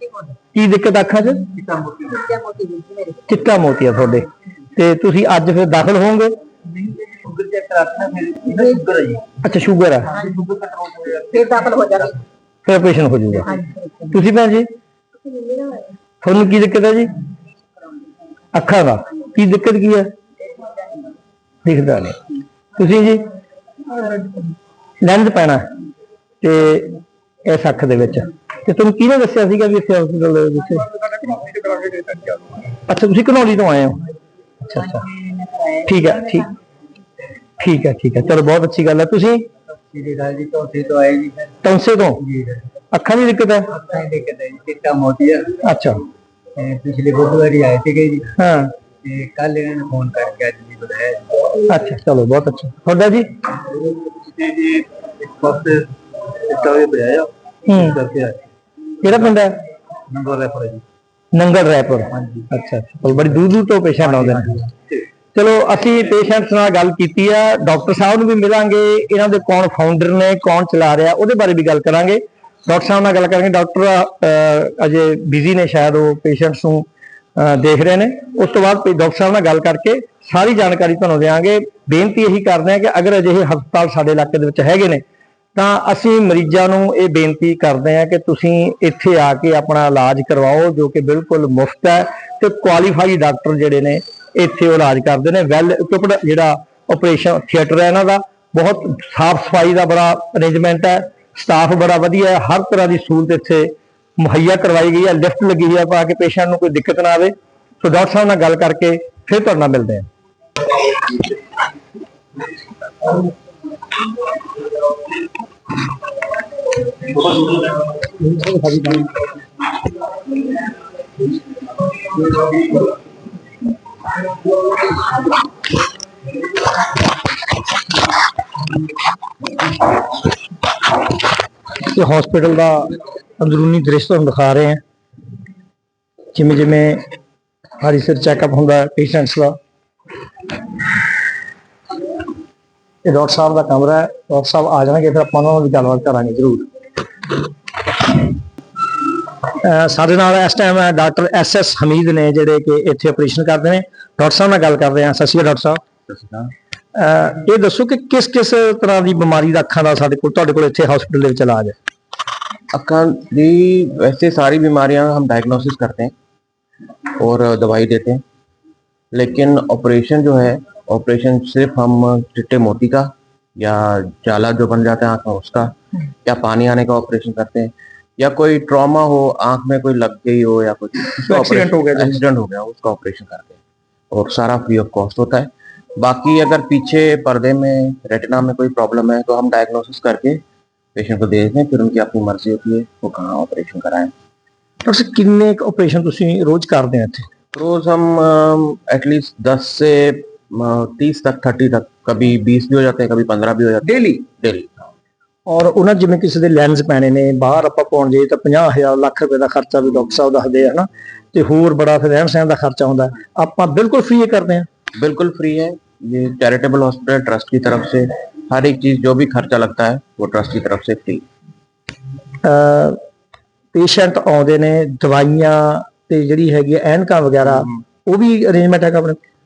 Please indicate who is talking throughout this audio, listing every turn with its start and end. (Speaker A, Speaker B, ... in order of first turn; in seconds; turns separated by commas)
Speaker A: 0.5-1.4, Speaker B: 1.6-2.2, Speaker C: 2.0-3.2, Speaker A: 3.3-6.3, Speaker B: 6.8-9.2, Speaker C: 8.5-8.8, Speaker A: 9.4-10.2, Speaker B: 10.1-11.3, Speaker C: 11.2-12.2, Speaker A: 12.6-14.7, Speaker C: 13.6-13.9, Speaker C: 15.3-15.9, Speaker A: 16.2-17.1, Speaker A: 18.5-20.1, Speaker A: 21.6-22.2, Speaker A: 22.8-23.2, Speaker A: 25.0-25.6, Speaker A: 26.4-30.9, Speaker B: 31.6-32.4, Speaker A: 32.9-34.0, Speaker A: 34.6-35.1, Speaker A: 35.8-36.5, Speaker A: 37.6-39.5, Speaker B: 39.9-41.6, Speaker A: 41.6-42.2, Speaker B: 42.2-42.6, Speaker A: 42.9-43.7, Speaker B: 43.7-45.6, Speaker A: 45.6-46.0, Speaker B: 46.5-48.3, Speaker A: 48.4-48.7, Speaker B: 49.0-51.4, Speaker A: 51.7-53.3, Speaker B: 54.3-58.4, Speaker A: 57.6-58.0, Speaker A: 59.0-59.6, Speaker B: 60.1-60.8, Speaker A: 61.3-64.6, Speaker A: 65.3-85.0, Speaker A: 85.5-110.1, Speaker A: 118.2-119.1, Speaker A: 131.8-134.8, Speaker A: 136.3-137.0, Speaker A: 137.8-139.6, Speaker A: 143.0-146.6, Speaker A: 149.6-155.8, Speaker D: 156.1-156.5, Speaker A: 156.9-161.8, Speaker D: 162.7-166.1, Speaker D: 167.2-168.2, Speaker D: 169.1-175.7, Speaker D: 176.2-183.6, Speaker A: 181.2-182.2, Speaker D: 184.1-190.4, Speaker D: 190.9-194.1, Speaker A: 194.8-197.2, Speaker D: 197.5-204.8, Speaker A: 205.5-214.7, Speaker D: 215.0-221.2, Speaker A: 222.4-223.0, Speaker A: 223.7-229.2